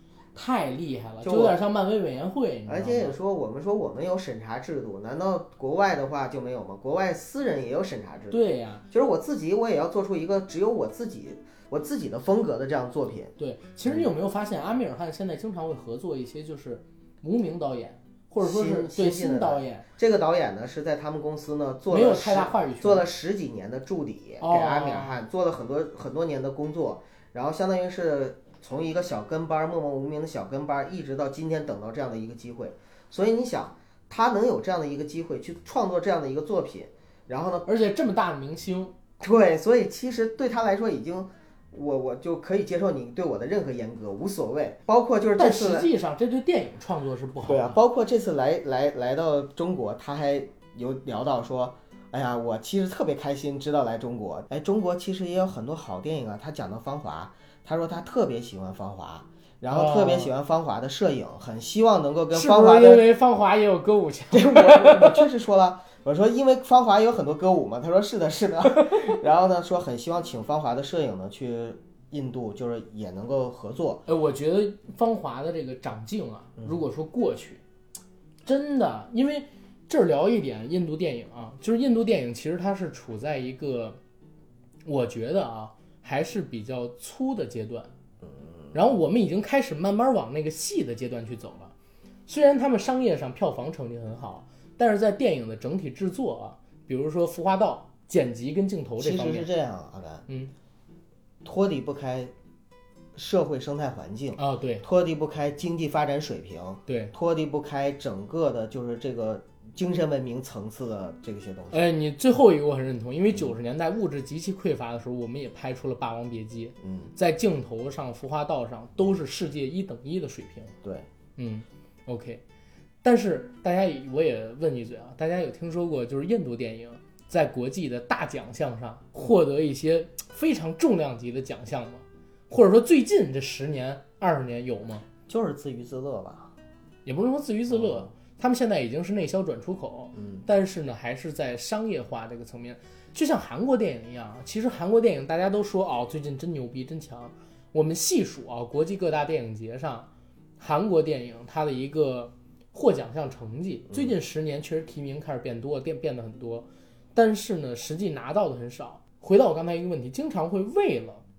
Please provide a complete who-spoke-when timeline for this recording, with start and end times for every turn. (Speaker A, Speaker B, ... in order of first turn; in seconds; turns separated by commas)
Speaker A: 0.3-3.1, Speaker B: 1.2-1.6, Speaker B: 2.7-13.3, Speaker A: 8.3-8.8, Speaker A: 13.4-19.9, Speaker B: 18.4-37.7, Speaker A: 21.9-23.1, Speaker A: 24.4-25.2, Speaker A: 37.6-38.9, Speaker B: 39.2-45.9, Speaker A: 45.4-47.8, Speaker B: 47.5-63.1, Speaker A: 59.7-60.3, Speaker A: 62.3-65.3, Speaker B: 64.3-74.0, Speaker A: 68.7-69.2, Speaker A: 74.1-77.6, Speaker A: 78.4-84.0, Speaker A: 84.8-87.9, Speaker B: 88.2-88.7, Speaker A: 88.7-91.7, Speaker A: 92.3-99.5, Speaker B: 99.0-100.2, Speaker A: 100.3-100.5, Speaker B: 101.4-102.3, Speaker B: 103.1-111.9, Speaker A: 104.3-104.8, Speaker A: 106.9-107.1, Speaker A: 111.7-120.8, Speaker B: 116.8-117.1, Speaker A: 121.3-122.4, Speaker A: 123.0-135.0, Speaker B: 135.3-136.5, Speaker A: 137.1-161.2, Speaker B: 140.1-140.4